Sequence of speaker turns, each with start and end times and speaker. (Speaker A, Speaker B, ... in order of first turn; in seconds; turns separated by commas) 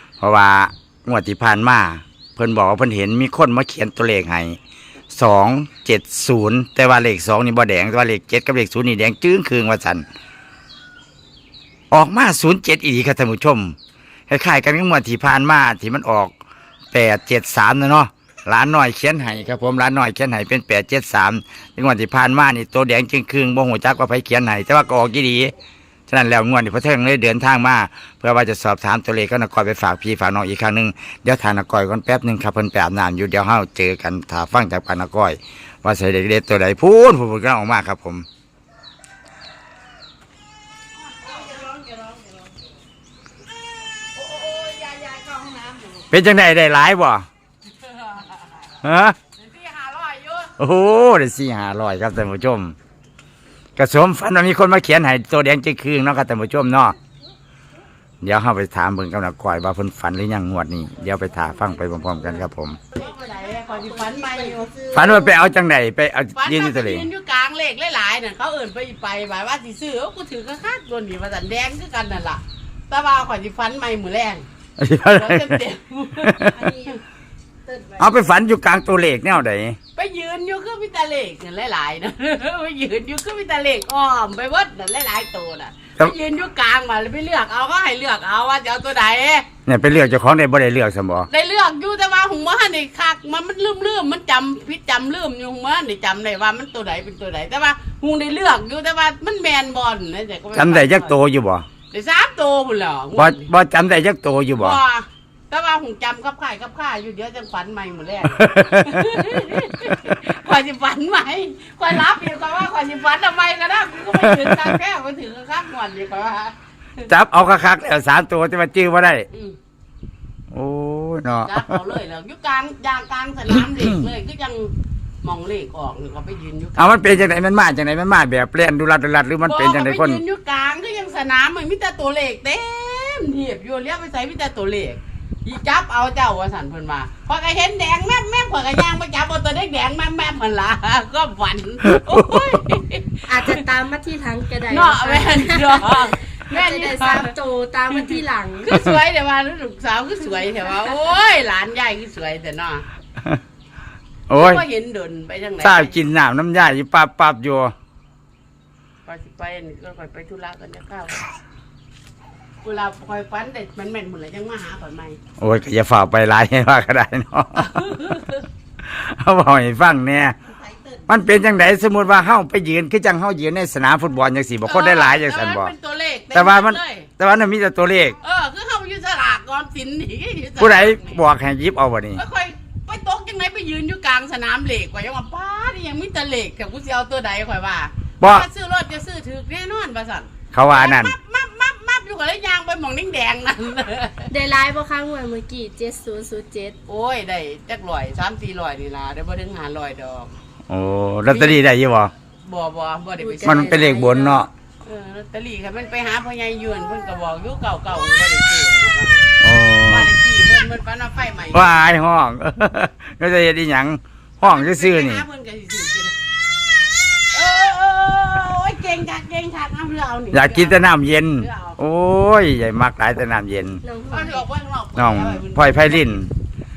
Speaker A: 0.2-4.6, Speaker A: 5.1-10.0, Speaker A: 11.9-13.7, Speaker A: 14.3-16.3, Speaker A: 16.9-25.5, Speaker A: 26.1-38.2, Speaker B: 41.3-41.6, Speaker B: 44.2-45.1, Speaker A: 46.1-47.2, Speaker B: 48.0-48.4, Speaker A: 48.8-49.1, Speaker B: 49.4-50.5, Speaker A: 50.6-52.7, Speaker A: 53.8-56.9, Speaker A: 58.2-62.8, Speaker B: 62.9-65.1, Speaker A: 64.9-67.1, Speaker B: 66.3-74.4, Speaker A: 74.8-75.6, Speaker B: 75.0-76.4, Speaker A: 76.2-76.5, Speaker C: 76.4-77.0, Speaker C: 77.7-78.2, Speaker A: 78.0-79.8, Speaker B: 80.0-89.5, Speaker A: 89.7-91.3, Speaker B: 91.3-101.1, Speaker A: 100.5-101.6, Speaker B: 101.9-103.5, Speaker A: 103.2-104.8, Speaker B: 104.5-116.5, Speaker A: 108.3-109.2, Speaker A: 109.8-110.1, Speaker A: 114.2-114.8, Speaker A: 117.1-119.3, Speaker B: 119.3-119.5, Speaker A: 120.5-121.8, Speaker B: 121.4-124.7, Speaker B: 125.2-127.3, Speaker A: 126.8-130.2, Speaker B: 129.4-143.7, Speaker A: 141.8-142.5, Speaker C: 143.3-148.7, Speaker B: 144.7-147.3, Speaker B: 147.9-152.8, Speaker A: 154.3-154.6, Speaker B: 154.3-156.0, Speaker A: 155.6-157.7, Speaker B: 159.0-161.3, Speaker B: 162.6-165.2, Speaker A: 165.4-167.9, Speaker B: 167.6-168.4, Speaker A: 168.8-170.3, Speaker A: 171.1-175.7, Speaker B: 174.6-177.1, Speaker A: 176.3-178.2, Speaker B: 178.2-181.2, Speaker A: 180.6-182.2, Speaker B: 182.2-194.3, Speaker A: 188.2-188.5, Speaker A: 190.5-191.1, Speaker C: 194.3-196.8, Speaker B: 196.9-200.3, Speaker A: 200.7-202.1, Speaker B: 201.3-201.6, Speaker B: 202.4-209.3, Speaker C: 203.2-204.1, Speaker A: 203.4-204.5, Speaker A: 209.4-210.1, Speaker B: 209.9-211.9, Speaker A: 211.5-215.2, Speaker B: 214.4-216.2, Speaker B: 217.3-221.8, Speaker A: 220.3-223.8, Speaker C: 223.8-224.4, Speaker B: 224.1-226.2, Speaker A: 224.9-226.3